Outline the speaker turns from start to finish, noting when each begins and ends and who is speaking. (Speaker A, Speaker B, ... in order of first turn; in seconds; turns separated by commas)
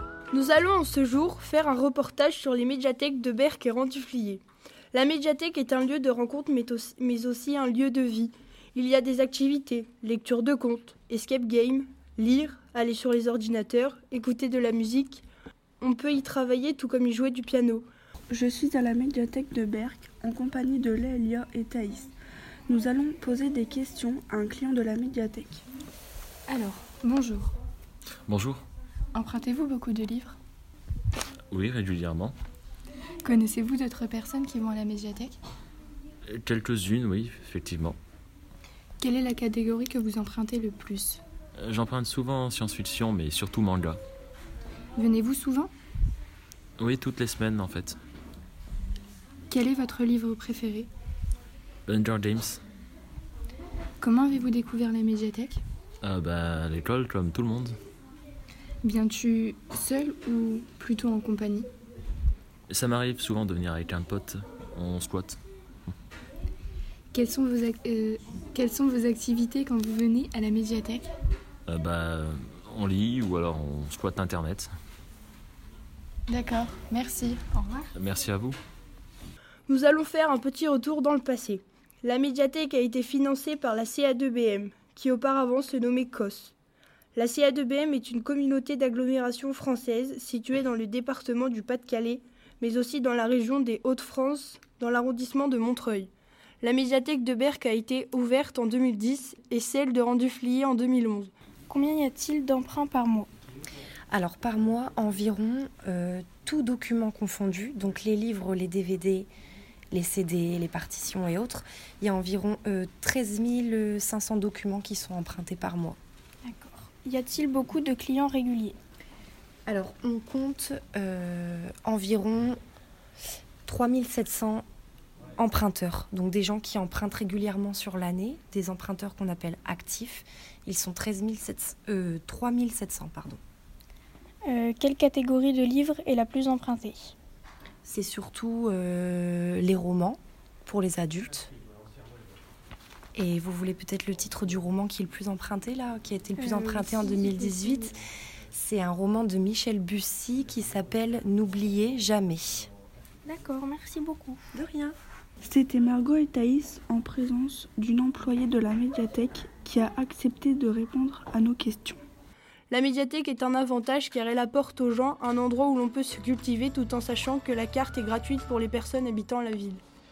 Speaker A: 0.3-15.3, Speaker A: 15.8-17.9, Speaker B: 18.3-22.1, Speaker B: 22.7-25.6, Speaker C: 26.5-27.6, Speaker D: 28.3-28.6, Speaker C: 29.1-30.4, Speaker D: 31.5-32.3, Speaker C: 33.2-35.4, Speaker D: 36.3-38.0, Speaker C: 39.0-41.2, Speaker D: 41.6-44.0, Speaker C: 45.0-45.7, Speaker D: 46.8-48.0, Speaker C: 49.5-50.9, Speaker D: 51.9-52.6, Speaker C: 54.0-55.6, Speaker D: 56.0-57.8, Speaker C: 58.8-61.7, Speaker D: 62.7-65.4, Speaker C: 67.1-71.1, Speaker D: 71.7-74.7, Speaker C: 76.3-77.9, Speaker D: 78.0-78.6, Speaker A: 79.7-86.5, Speaker A: 87.1-101.3, Speaker E: 101.7-103.3, Speaker F: 104.1-109.3, Speaker F: 109.9-116.0, Speaker E: 116.5-118.8, Speaker F: 119.7-122.6, Speaker F: 123.7-124.6, Speaker F: 125.4-133.4, Speaker E: 134.4-137.1, Speaker F: 137.8-141.5, Speaker F: 143.2-148.0, Speaker E: 146.4-147.8, Speaker F: 148.5-152.7, Speaker E: 153.2-154.4, Speaker B: 155.4-162.0, Speaker A: 162.7-169.8